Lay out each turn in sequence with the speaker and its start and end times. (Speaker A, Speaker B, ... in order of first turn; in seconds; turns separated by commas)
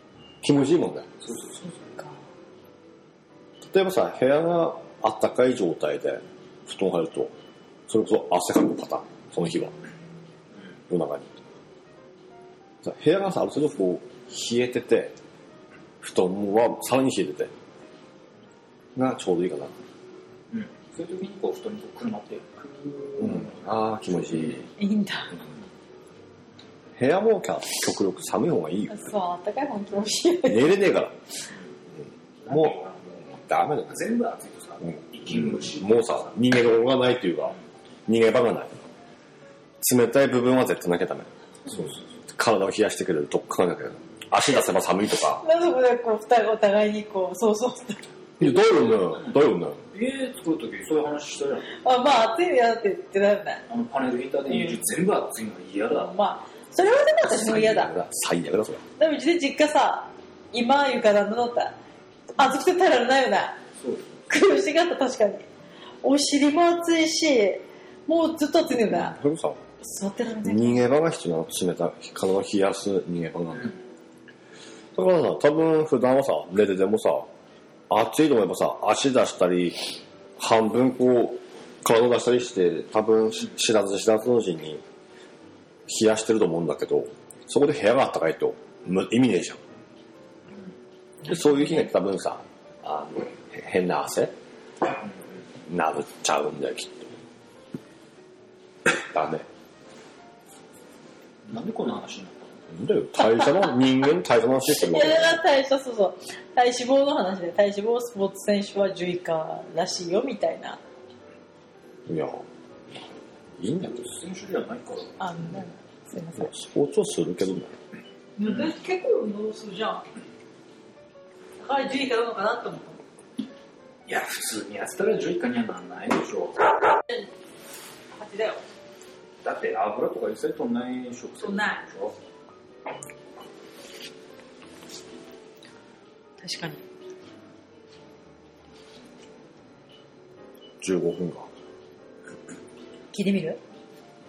Speaker A: 0.4-1.1, Speaker B: 1.2-1.7, Speaker C: 1.6-2.2, Speaker A: 3.6-7.3, Speaker A: 7.9-9.8, Speaker A: 10.9-11.4, Speaker A: 12.8-15.2, Speaker A: 16.0-17.5, Speaker A: 19.0-19.7, Speaker B: 20.5-24.7, Speaker A: 23.2-24.7, Speaker C: 24.8-25.4, Speaker A: 27.0-29.0, Speaker C: 28.9-30.8, Speaker A: 30.5-31.2, Speaker B: 32.4-33.3, Speaker A: 32.5-32.8, Speaker A: 33.3-34.0, Speaker B: 33.9-36.3, Speaker A: 35.3-37.6, Speaker A: 38.1-38.8, Speaker A: 39.8-45.4, Speaker C: 45.3-48.0, Speaker A: 48.4-49.8, Speaker B: 49.2-51.8, Speaker C: 51.7-53.6, Speaker B: 53.7-56.1, Speaker C: 55.9-57.9, Speaker A: 57.2-58.8, Speaker C: 59.0-61.8, Speaker C: 62.4-63.6, Speaker B: 63.8-64.1, Speaker C: 64.3-65.5, Speaker C: 66.0-69.2, Speaker A: 68.8-69.6, Speaker C: 69.8-70.8, Speaker A: 70.4-73.7, Speaker A: 75.0-77.3, Speaker A: 77.9-79.8, Speaker A: 80.4-84.8, Speaker A: 85.9-89.6, Speaker A: 91.2-94.3, Speaker A: 95.7-97.2, Speaker A: 98.9-99.5, Speaker B: 101.5-102.5, Speaker A: 102.7-105.4, Speaker C: 104.7-110.8, Speaker A: 112.1-112.4, Speaker A: 113.6-114.0, Speaker B: 113.9-115.2, Speaker C: 115.2-116.5, Speaker A: 116.4-117.8, Speaker C: 118.4-120.0, Speaker B: 118.4-118.7, Speaker C: 121.6-123.0, Speaker B: 124.1-126.7, Speaker C: 128.1-128.6, Speaker B: 129.4-132.2, Speaker C: 131.4-131.8, Speaker C: 136.4-136.8, Speaker A: 140.8-141.5, Speaker C: 143.1-143.6